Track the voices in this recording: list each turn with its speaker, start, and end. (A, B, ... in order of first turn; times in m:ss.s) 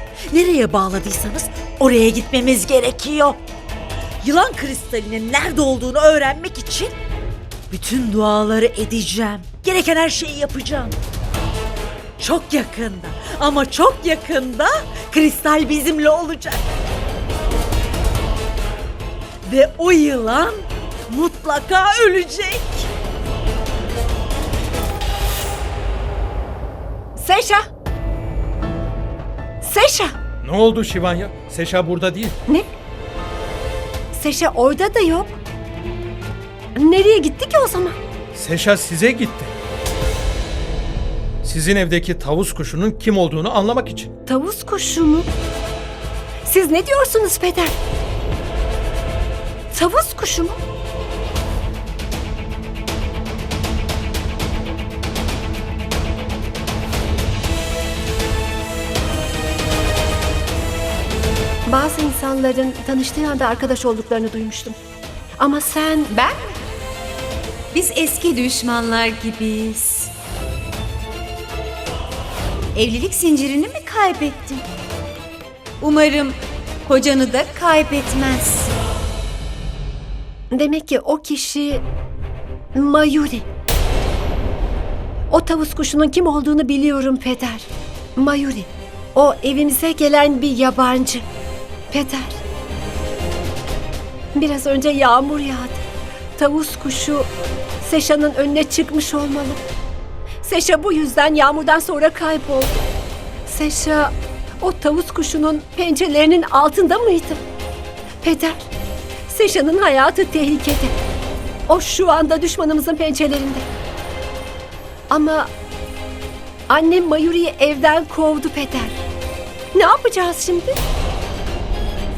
0:00.3-0:03.4 A
0:04.2-0:06.9 A
0:07.7-0:11.0 A
0:12.2-0:16.6 A
0:19.4-0:22.9 A
0:27.2-0:27.7 B
0:29.6-0:30.2 B
0:30.4-0:32.4 C
0:34.1-0:35.4 B
0:36.8-0:38.0 B
0:38.3-0:39.5 C
0:41.4-0:44.1 C
0:44.3-0:45.3 B
0:46.5-0:47.8 B
0:49.7-0:50.6 B
1:01.7-1:04.8 B
1:05.4-1:06.1 B
1:07.9-1:09.8 D
1:12.8-1:14.6 D
1:15.8-1:18.7 D
1:20.5-1:21.8 B
1:22.7-1:23.4 B
1:25.3-1:31.3 B
1:31.9-1:32.4 B
1:34.3-1:35.8 B
1:36.4-1:37.3 B
1:37.8-1:39.6 B
1:40.4-1:42.7 B
1:43.5-1:47.4 B
1:48.2-1:48.7 B
1:49.3-1:50.9 B
1:51.7-1:53.7 B
1:55.1-1:55.5 B
1:56.7-1:59.0 B
1:59.7-2:00.8 B